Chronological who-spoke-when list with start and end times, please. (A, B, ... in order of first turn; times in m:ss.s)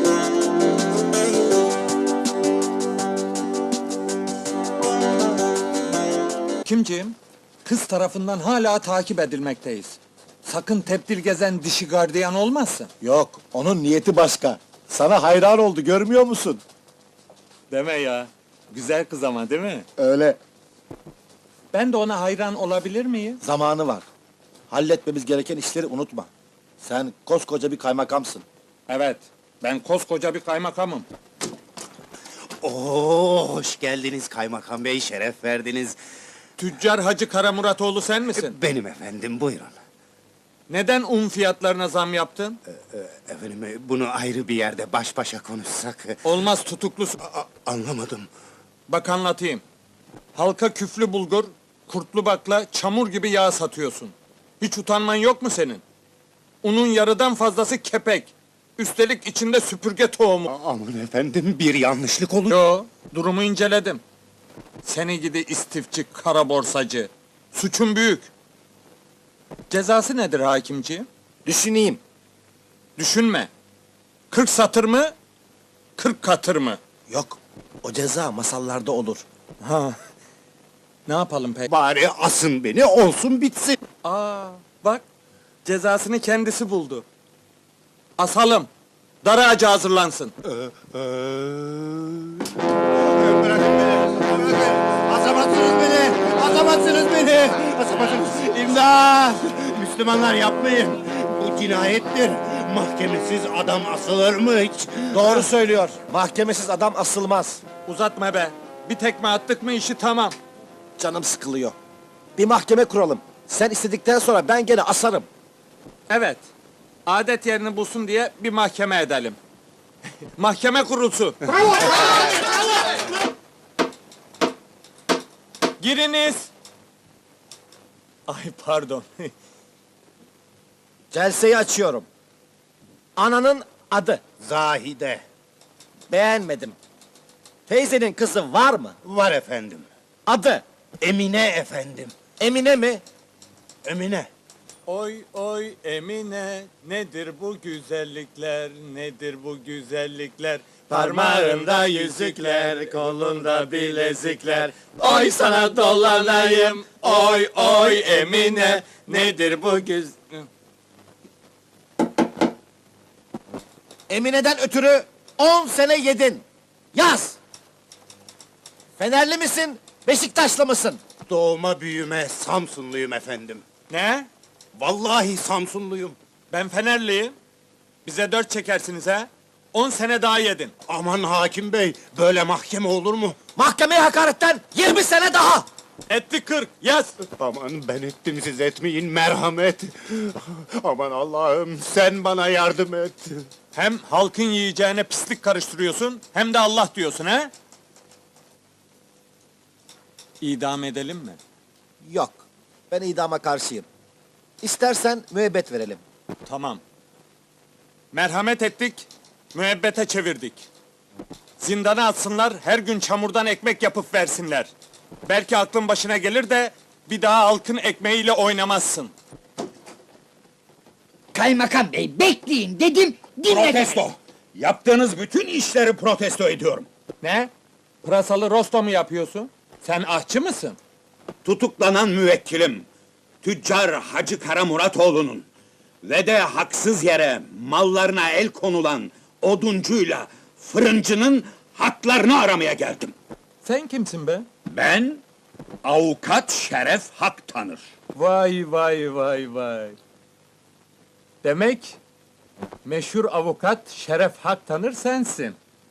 0:06.6-0:12.9 A
0:13.0-0:16.6 B
0:17.7-0:19.9 A
0:20.0-0:20.4 B
0:21.7-0:23.4 A
0:23.4-0:24.1 B
0:24.7-0:26.3 B
0:26.8-0:28.4 B
0:28.9-0:31.1 A
0:32.6-0:36.0 C
0:36.6-0:38.5 A
0:38.3-0:39.8 C
0:40.7-0:42.6 A
0:42.7-0:46.2 C
0:46.2-0:47.2 A
0:47.2-0:48.3 C
0:48.9-0:49.6 A
0:50.3-0:55.8 A
0:56.6-1:00.5 A
1:00.5-1:02.6 C
1:02.5-1:04.0 A
1:04.8-1:08.3 A
1:09.7-1:11.1 A
1:11.5-1:12.0 B
1:13.0-1:13.5 A
1:14.3-1:15.1 A
1:16.0-1:16.8 A
1:17.1-1:19.2 B
1:19.6-1:20.0 A
1:21.1-1:21.7 A
1:21.7-1:23.8 C
1:24.0-1:25.0 A
1:25.6-1:27.0 A
1:28.2-1:28.7 A
1:29.2-1:30.3 A
1:30.5-1:32.4 C
1:33.0-1:45.5 C
1:45.1-1:47.6 B
1:47.8-1:50.3 A
1:51.0-1:51.8 B
1:52.4-1:55.3 B
1:56.1-1:56.5 A
1:57.1-1:59.4 A
2:00.4-2:02.3 A
2:05.8-2:06.5 A
2:08.3-2:09.3 A
2:11.1-2:12.1 B
2:13.2-2:14.2 B
2:14.4-2:15.2 C
2:16.1-2:16.8 B
2:17.7-2:19.0 B
2:19.0-2:19.9 C
2:20.3-2:20.6 B
2:21.0-2:22.1 C
2:22.4-2:23.0 B
2:23.8-2:24.3 C
2:24.9-2:40.5 A
2:44.1-2:47.4 B
2:49.0-2:51.0 B
2:51.3-2:53.6 C
2:53.9-2:54.3 A
2:54.8-2:56.2 C
2:56.5-2:57.3 A
2:58.0-3:00.7 A
3:00.9-3:03.4 C
3:03.6-3:05.7 B
3:06.1-3:07.1 A
3:07.4-3:13.5 C
3:13.7-3:17.5 A
3:20.4-3:21.4 A
3:22.0-3:23.8 B
3:24.6-3:26.0 B
3:26.5-3:26.8 A
3:28.1-3:30.7 A
3:31.6-3:34.7 A
3:35.3-3:39.1 A
3:41.3-3:44.0 D
3:43.4-3:46.9 E
3:47.2-3:47.5 A
3:48.0-3:50.8 A
3:51.4-3:52.8 E
3:53.4-3:55.5 E
3:56.0-4:03.2 E
4:03.6-4:04.4 A
4:04.7-4:05.2 E
4:05.8-4:07.9 E
4:08.2-4:10.0 A
4:11.4-4:12.0 A
4:12.8-4:15.6 A